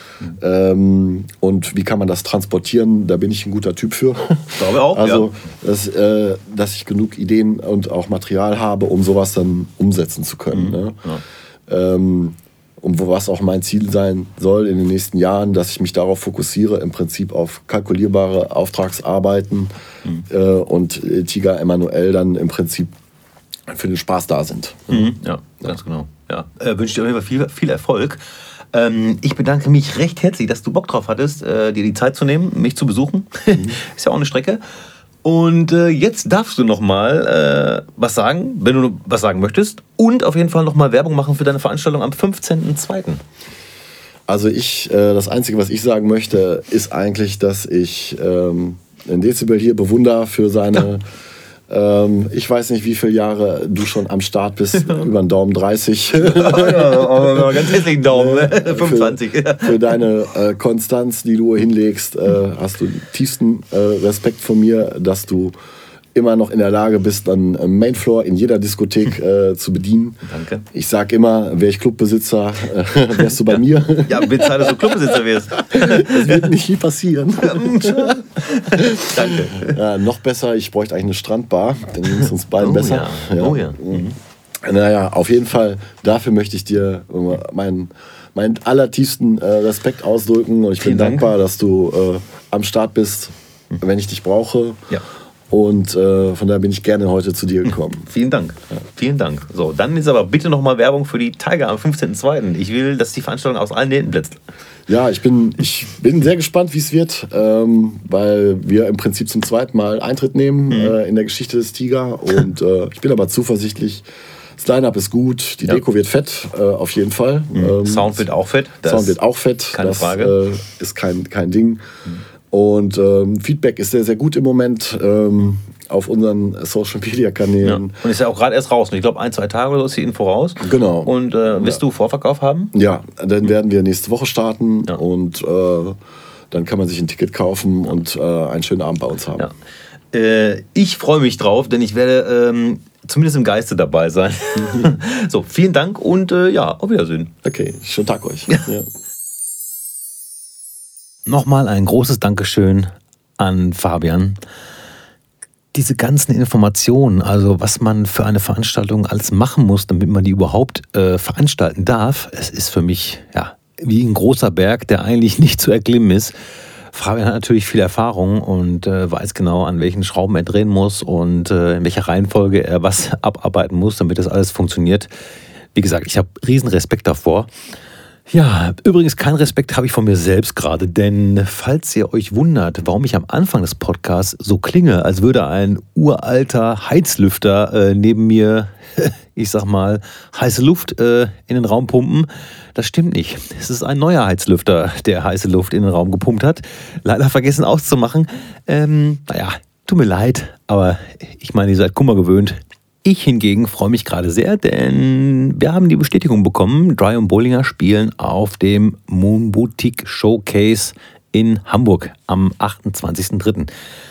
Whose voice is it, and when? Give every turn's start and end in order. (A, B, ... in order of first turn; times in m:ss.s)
0:00.3-0:11.0 A
0:04.6-0:05.3 B
0:10.5-0:11.2 B
0:11.7-0:19.7 A
0:20.3-0:22.9 A
0:23.7-0:25.1 A
0:24.9-0:28.2 B
0:28.7-0:34.6 B
0:35.2-0:43.2 B
0:44.3-0:51.0 A
0:51.7-1:05.5 A
0:54.7-0:55.1 B
0:56.1-1:00.0 B
1:06.1-1:10.2 A
1:10.2-1:10.6 B
1:10.7-1:34.8 A
1:14.0-1:16.5 B
1:17.4-1:19.8 B
1:22.6-1:24.2 B
1:30.8-1:31.3 B
1:35.5-1:38.1 A
1:38.1-1:44.4 B
1:44.9-1:54.0 A
1:50.7-1:50.9 B
1:54.6-1:58.2 A
1:57.5-1:59.2 B
1:58.8-2:01.8 A
1:59.7-2:00.4 B
2:02.5-2:08.0 A
2:07.6-2:12.7 B
2:10.6-2:11.8 A
2:12.7-2:16.0 A
2:16.5-2:19.5 A
2:20.1-2:27.3 B
2:27.4-2:28.9 A
2:31.2-2:34.4 B
2:35.7-2:46.3 B
2:46.9-2:55.1 B
2:55.7-2:57.5 B
2:58.3-3:33.7 B